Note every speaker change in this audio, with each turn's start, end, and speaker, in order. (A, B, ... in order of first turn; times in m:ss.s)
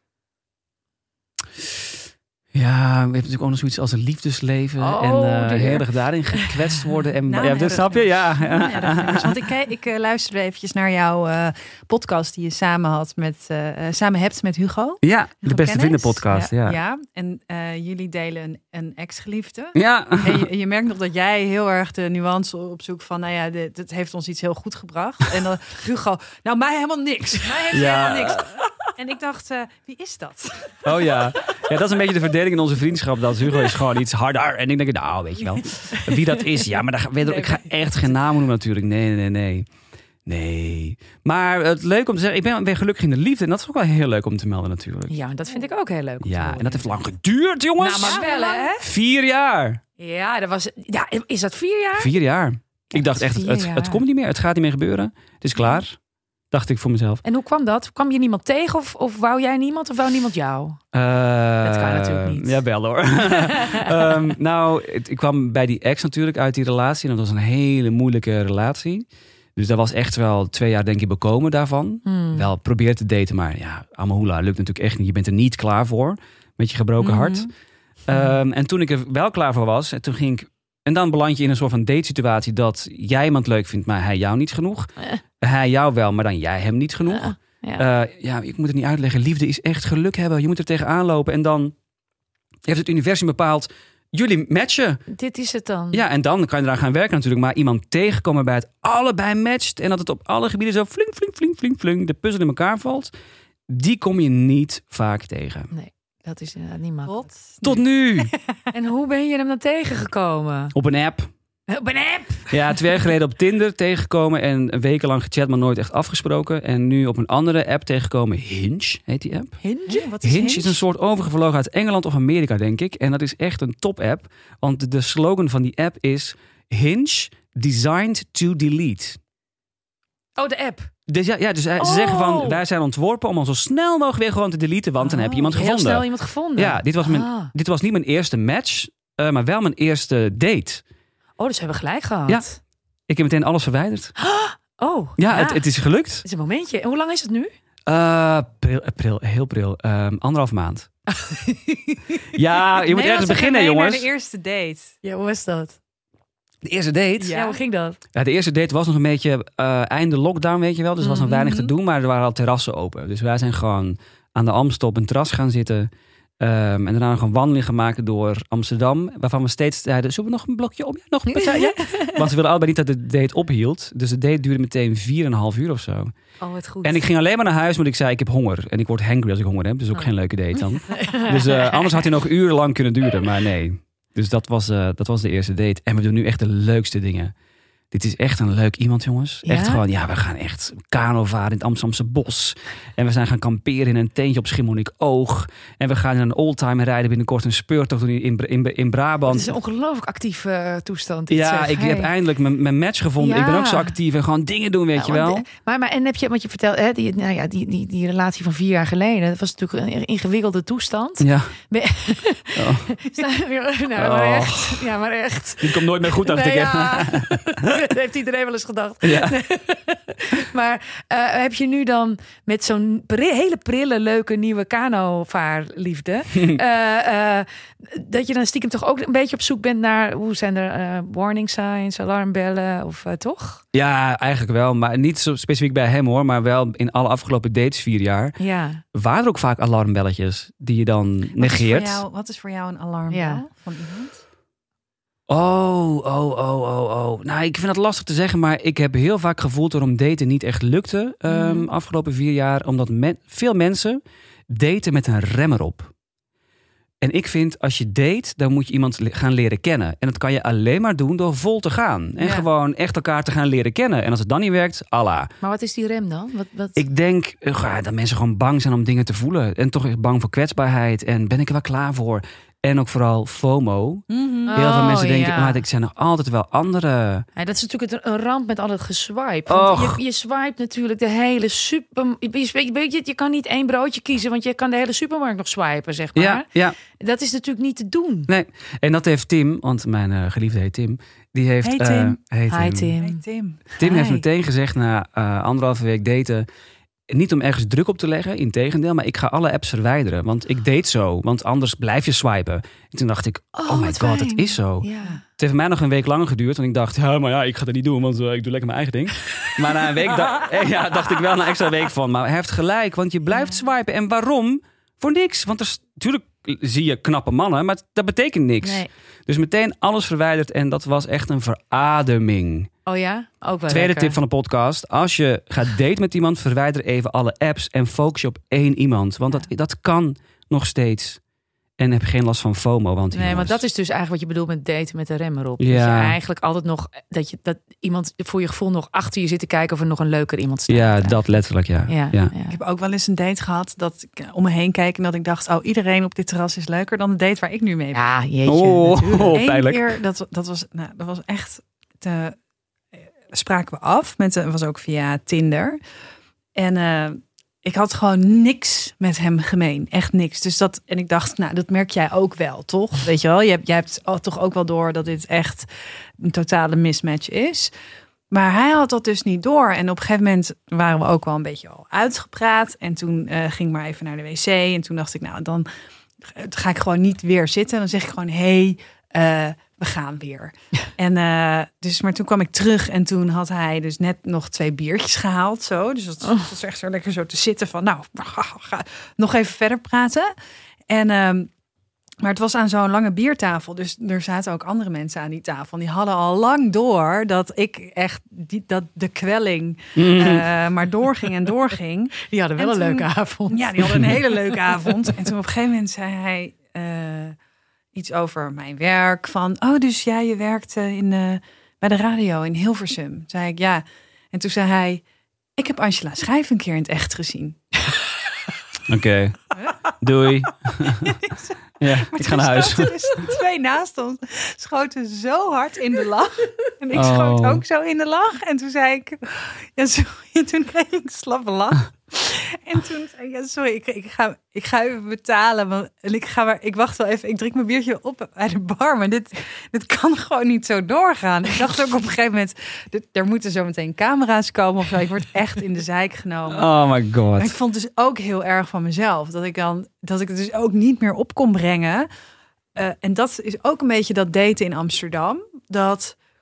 0:02.5-0:09.4 A
0:04.8-0:07.0 B
0:07.3-0:31.1 C
0:15.0-0:16.8 A
0:19.7-0:20.5 A
0:27.7-0:28.5 A
0:30.8-0:39.6 A
0:37.3-0:37.9 C
0:40.2-0:45.1 A
0:45.1-0:47.0 B
0:46.2-0:48.3 A
0:47.8-0:48.8 B
0:48.0-0:48.8 C
0:48.8-0:49.8 A
0:50.0-0:52.1 B
0:52.0-0:56.0 A
0:52.9-0:54.0 B
0:56.5-0:57.2 A
0:57.2-1:00.8 B
1:00.9-1:17.5 A
1:01.6-1:02.6 B
1:03.3-1:04.2 B
1:12.0-1:12.5 B
1:17.0-1:17.5 C
1:18.1-1:31.7 A
1:27.1-1:27.8 B
1:32.6-1:35.0 A
1:35.1-1:36.0 B
1:35.9-1:43.1 A
1:43.7-1:45.7 A
1:45.7-1:47.2 B
1:47.1-1:47.8 C
1:47.6-1:48.3 A
1:48.7-1:50.7 B
1:50.7-1:51.3 A
1:51.7-1:53.0 B
1:52.5-1:59.6 A
1:59.6-2:00.1 B
1:59.9-2:00.8 C
2:00.2-2:09.2 A
2:10.4-2:10.9 B
2:11.1-2:20.8 A
2:11.8-2:12.6 B
2:15.0-2:17.5 B
2:21.4-2:22.6 B
2:23.1-2:24.1 A
2:24.2-2:25.6 B
2:25.2-2:26.2 A
2:26.2-2:27.5 B
2:27.9-2:30.9 A
2:31.2-2:32.0 B
2:32.3-2:34.1 A
2:32.8-2:34.9 C
2:35.0-2:35.8 B
2:36.6-2:37.4 A
2:37.2-2:37.6 C
2:37.3-2:38.0 B
2:38.1-2:45.9 A
2:41.0-2:41.6 B
2:41.4-2:41.7 C
2:46.4-2:56.1 A
2:51.2-2:52.3 B
2:56.4-2:56.8 C
2:56.5-2:57.0 B
2:56.8-3:07.3 A
3:00.9-3:02.1 B
3:07.9-3:19.5 A
3:09.4-3:09.8 B
3:19.3-3:22.1 B
3:21.3-3:25.4 A
3:23.2-3:24.0 B
3:25.0-3:53.6 B
3:31.2-3:31.5 A
3:32.6-3:33.0 A
3:33.9-3:34.9 A
3:35.6-3:37.8 A
3:39.0-3:39.4 A
3:53.7-3:58.3 A
3:58.4-3:58.8 B
3:58.9-4:02.0 A
4:01.4-4:04.2 C
4:03.1-4:03.4 B
4:05.3-4:15.9 A
4:11.3-4:11.7 C
4:17.0-4:25.3 A
4:22.2-4:22.5 C
4:25.4-4:26.8 B
4:26.8-4:37.3 A
4:34.1-4:34.6 C
4:34.5-4:35.6 B
4:37.4-4:48.3 B
4:39.5-4:40.0 A
4:46.1-4:46.8 A
4:48.3-4:53.0 A
4:51.6-4:52.2 C
4:52.5-4:53.2 B
4:53.0-4:53.8 C
4:53.8-4:54.2 B
4:53.8-4:56.4 A
4:57.1-5:22.7 A
5:03.6-5:05.2 B
5:13.3-5:13.6 B
5:18.6-5:18.9 B
5:22.8-5:24.2 B
5:23.7-5:31.2 A
5:31.8-5:33.6 A
5:33.1-5:41.2 B
5:35.6-5:36.2 A
5:40.7-5:42.3 A
5:41.9-5:42.6 B
5:42.5-5:48.0 C
5:47.9-5:49.4 B
5:48.4-5:49.9 A
5:49.3-5:52.4 C
5:53.3-5:55.8 C
5:56.5-6:05.7 C
6:06.2-6:07.7 C
6:08.3-6:15.7 C
6:16.2-6:30.3 C
6:30.9-6:31.5 C
6:32.2-6:47.4 C
6:40.0-6:40.5 A
6:42.2-6:44.6 B
6:47.9-6:55.0 C
6:55.6-6:57.6 C
6:58.9-7:01.2 A
6:59.5-6:59.9 C
7:01.0-7:26.7 C
7:01.8-7:03.2 A
7:06.9-7:07.6 A
7:26.5-7:27.6 A
7:27.4-7:32.1 C
7:32.8-7:36.2 C